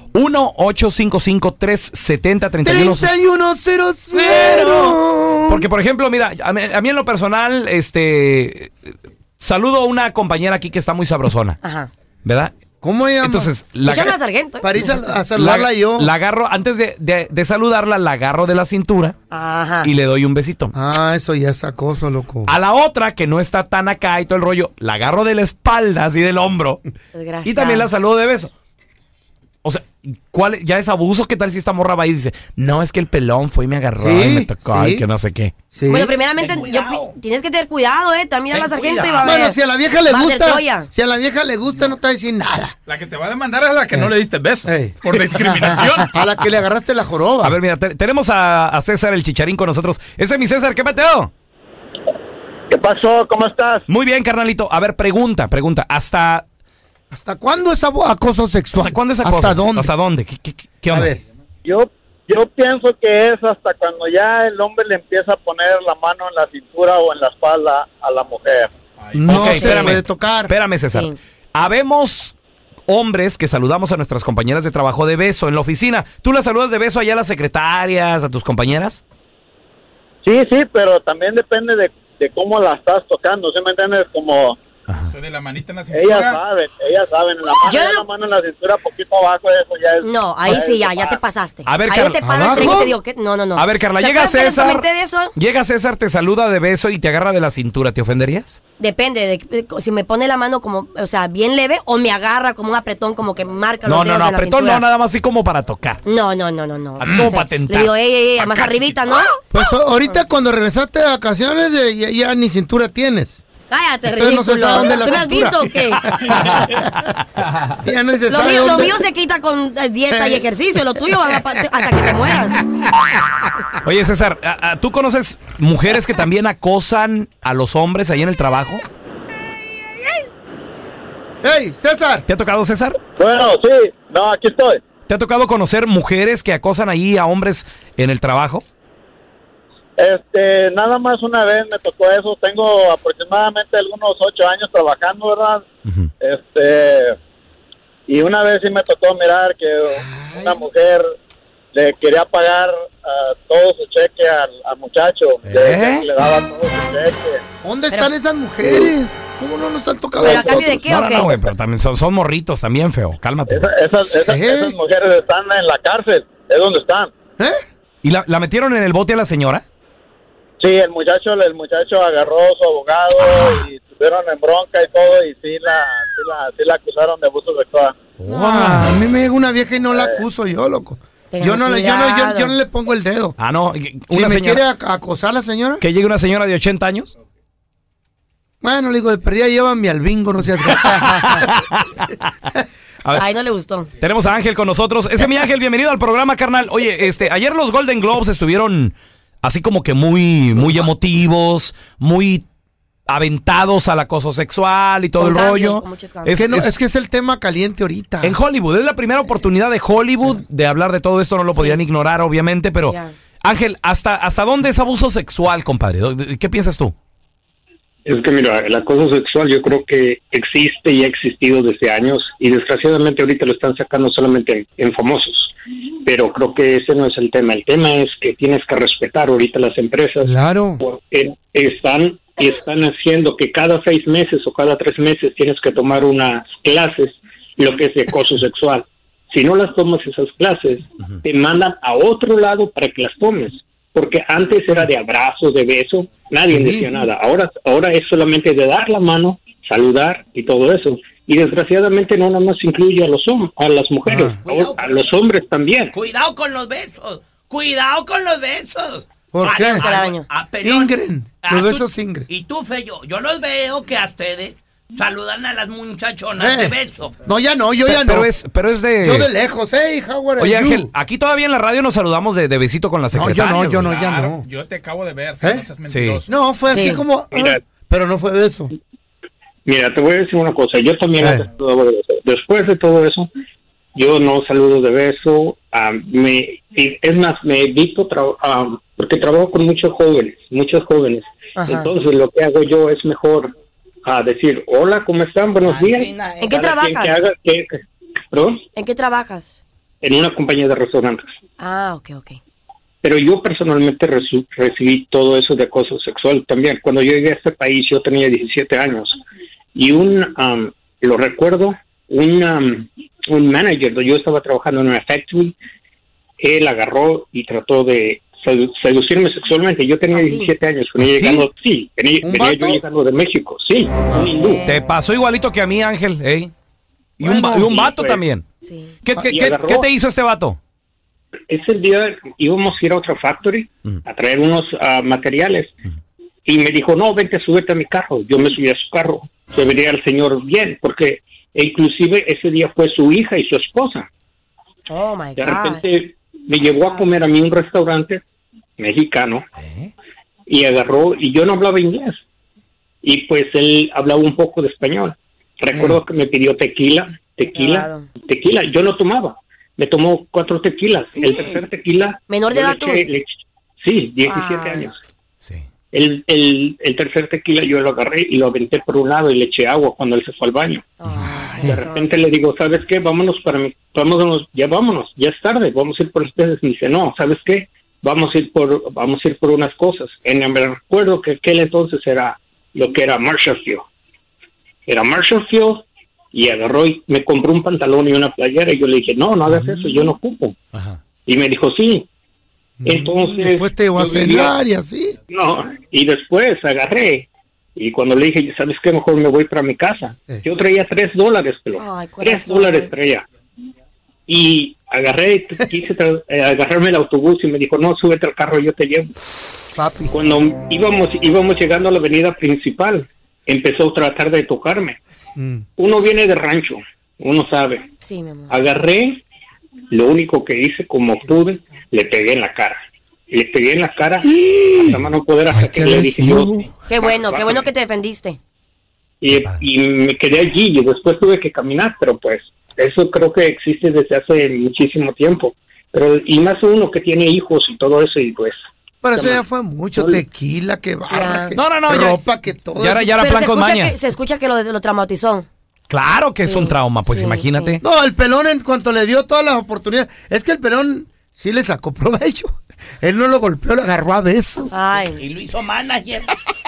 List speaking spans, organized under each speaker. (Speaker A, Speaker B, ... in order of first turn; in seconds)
Speaker A: 0.1-3.1, 4.1-4.9, 5.5-8.7, 9.4-11.6, 12.2-12.6, 13.2-14.2, 15.3-19.1, 19.8-20.7, 22.5-26.8, 27.4-28.5, 29.6-35.6, 38.6-39.2, 47.4-51.3, 53.9-56.5, 58.8-61.1, 69.3-72.4, 72.9-79.0, 84.9-85.1, 91.7-92.7, 93.6-98.6, 103.8-106.0, 107.0-108.8, 123.8-128.8, 132.3-133.0, 135.1-138.7, 145.9-146.1, 155.4-156.1, 160.8-163.7, 168.0-169.7, 173.2-173.7, 178.2-179.0, 183.4-184.6, 185.8-187.1, 190.8-192.2, 193.1-193.3, 194.0-202.5, 203.1-206.8, 208.2-216.9, 267.9-269.3, 270.4-274.0, 275.9-276.2, 324.6-326.5, 327.2-328.5, 329.0-330.6, 349.6-349.9, 371.1-371.6, 390.7-391.0, 441.6-442.2, 442.8-444.0, 445.9-447.8
Speaker B: 2.6-5.7, 12.8-13.5, 14.6-16.1, 20.7-22.5, 34.0-35.0, 35.7-36.2, 39.2-42.8, 44.6-47.6, 57.1-59.9, 60.9-61.2, 69.2-70.5, 92.2-93.0, 109.5-113.4, 114.1-116.8, 117.7-119.0, 120.1-120.5, 131.4-132.3, 150.0-150.6, 157.6-160.9, 164.2-164.8, 178.3-183.4, 184.1-185.8, 188.6-191.1, 206.4-208.4, 230.2-230.8, 246.5-246.9, 254.1-254.4, 259.3-259.9, 260.6-262.3, 266.4-268.3, 269.0-270.9, 273.1-274.5, 275.4-275.7, 276.3-278.7, 281.2-281.4, 321.0-321.5, 322.2-322.8, 327.2-327.7, 392.8-395.2, 409.8-410.1, 415.4-415.6, 424.4-425.0, 425.5-426.7, 439.0-443.2, 447.8-454.8
Speaker C: 11.6-11.9, 13.8-15.0, 19.3-19.9, 27.1-27.9, 35.9-40.9, 69.4-70.0, 70.9-71.2, 87.4-88.1, 90.0-95.3, 98.8-104.9, 106.1-109.6, 113.7-116.1, 118.3-122.6, 160.2-161.5, 181.3-182.6, 191.1-191.3, 193.1-193.9, 205.2-206.4, 211.5-211.8, 212.9-213.1, 259.8-260.3, 276.7-277.0, 291.6-291.9, 296.4-297.3, 298.8-299.6, 301.6-302.4, 320.1-320.5, 324.3-324.9, 328.6-329.0, 344.9-345.8, 357.5-358.1, 361.2-361.6, 362.3-363.1, 364.3-364.9, 371.0-372.2, 401.8-402.9, 418.0-418.5, 426.9-428.4, 441.1-441.6, 443.2-445.5, 446.4-447.8, 454.7-455.3
Speaker D: 36.3-37.1, 254.5-255.1, 255.9-260.9, 261.4-267.1, 295.7-296.5, 455.1-456.3
Speaker E: 42.9-46.1, 69.0-69.8, 85.0-86.4, 273.7-276.3
Speaker F: 52.7-53.8, 61.6-68.7, 80.2-84.6, 85.9-91.2, 133.2-134.8, 140.0-145.6, 146.2-147.1, 148.1-151.1, 151.7-157.4, 163.5-167.1, 170.6-177.9, 179.9-180.2
Speaker G: 218.1-225.5, 226.1-256.0, 277.3-277.6, 279.7-283.3, 284.0-293.5, 294.1-297.8, 298.3-298.6, 300.0-301.3, 303.0-309.2, 309.8-315.6, 316.4-324.7, 327.6-328.2, 329.1-329.9, 331.5-335.8, 336.5-344.1, 345.4-348.2, 348.8-349.4, 350.5-352.2, 353.0-363.3, 363.8-365.0, 365.9-370.9, 371.6-383.9, 384.9-390.6, 391.3-392.1, 392.9-394.6, 395.3-403.2, 404.3-409.1, 410.1-415.0, 415.8-417.9, 418.5-419.2, 419.9-422.8, 423.3-427.7, 429.2-438.6, 439.1-439.4, 440.0-440.2